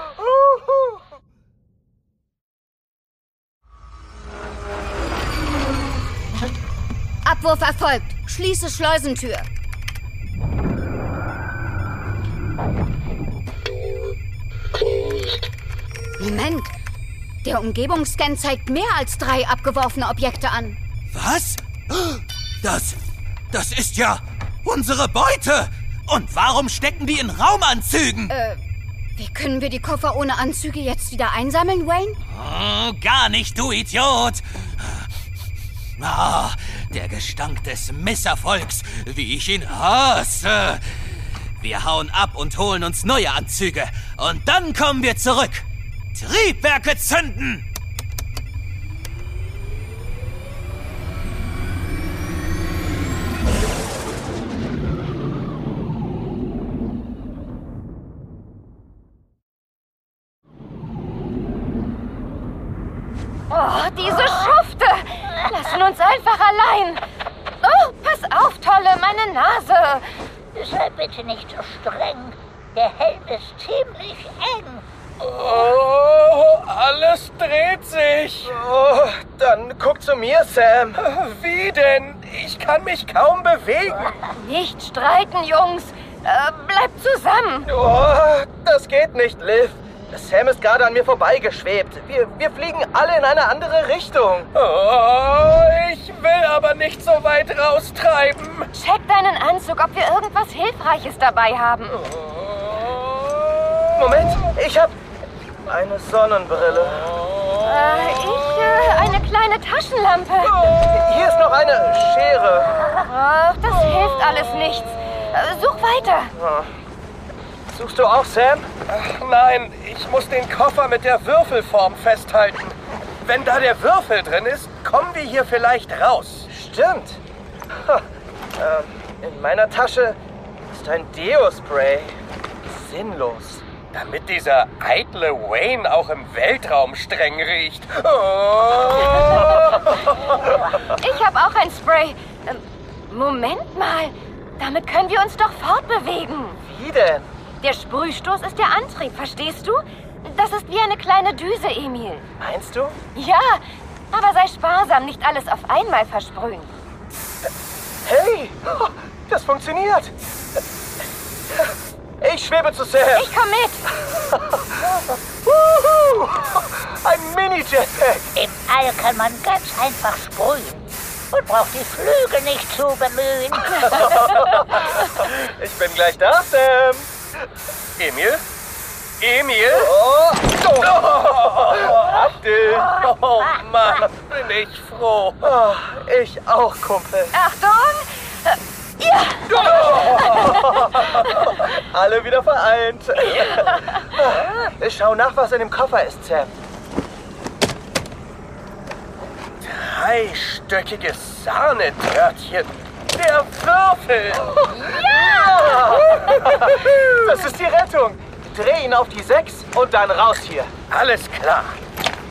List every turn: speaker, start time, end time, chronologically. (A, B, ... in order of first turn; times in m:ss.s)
0:07.2-0:09.5 A
0:16.2-0:16.7 A
0:17.4-0:20.8 A
0:21.1-0:23.0 B
0:23.5-0:28.3 B
0:28.3-0:28.6 A
0:29.2-0:32.2 A
0:32.3-0:35.1 B
0:36.0-0:47.6 B
1:03.5-1:04.1 C
1:04.4-1:04.7 A
1:04.8-1:05.0 C
1:05.5-1:05.8 A
1:05.9-1:07.0 C
1:07.6-1:10.0 C
1:10.6-1:14.8 D
1:15.2-1:18.5 E
1:18.4-1:21.0 F
1:21.0-1:24.2 E
1:24.6-1:27.6 C
1:27.7-1:34.5 F
1:34.5-1:38.7 E
1:38.9-1:41.9 C
1:44.0-1:45.0 F
1:45.6-1:47.1 F
1:47.9-1:50.5 C
1:50.9-1:52.7 F
1:53.1-1:56.3 C
1:56.4-1:56.7 F
1:57.7-1:58.7 F
1:58.9-2:06.5 E
2:06.5-2:07.2 F
2:08.6-2:10.2 F
2:10.7-2:13.6 F
2:13.9-2:19.8 E
2:21.0-2:26.6 C
2:26.6-2:27.3 F
2:27.6-2:32.2 C
2:32.4-2:33.0 F
2:33.2-2:36.7 C
2:38.0-2:40.1 F
2:42.2-2:43.4 F
2:43.4-2:43.8 C
2:44.1-2:44.6 F
2:45.4-2:48.3 F
2:48.3-2:53.9 D
2:53.8-2:57.1 F
2:58.0-2:58.4 E
2:59.2-2:59.9 E
2:59.9-3:02.9 F
3:00.8-3:05.5 E
3:05.4-3:07.4 F
3:07.6-3:07.9 C
3:09.6-3:10.4 E
3:10.3-3:16.5 F
3:19.6-3:24.5 E
3:24.7-3:30.7 F
3:30.9-3:31.8 E